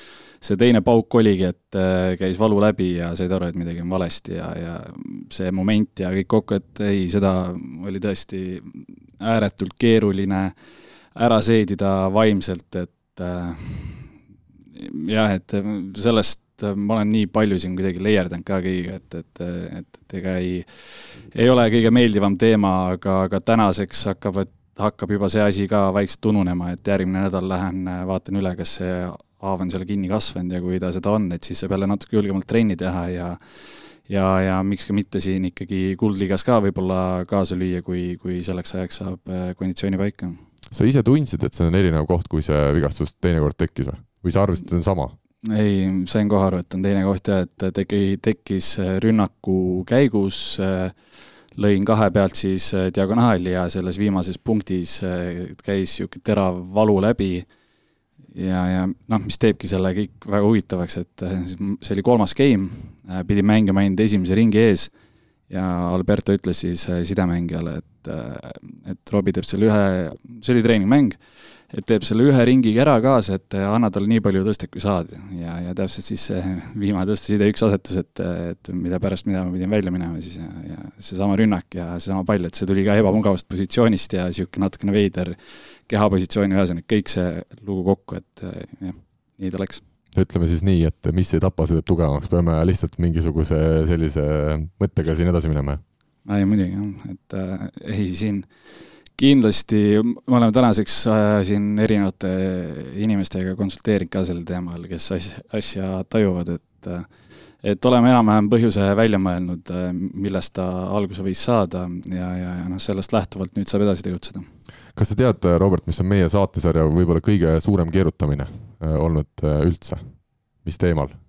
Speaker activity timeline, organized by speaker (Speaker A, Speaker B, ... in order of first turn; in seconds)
Speaker A: 0.4-10.5, 11.1-14.1, 14.8-20.7, 21.3-33.4, 34.1-40.4, 45.4-50.9, 51.5-57.5, 58.3-64.9, 65.5-71.2, 71.7-85.3, 85.9-89.8, 96.2-98.5, 99.2-107.1, 107.6-114.5
Speaker B: 40.7-45.1, 90.1-95.8, 115.0-120.0, 120.6-121.2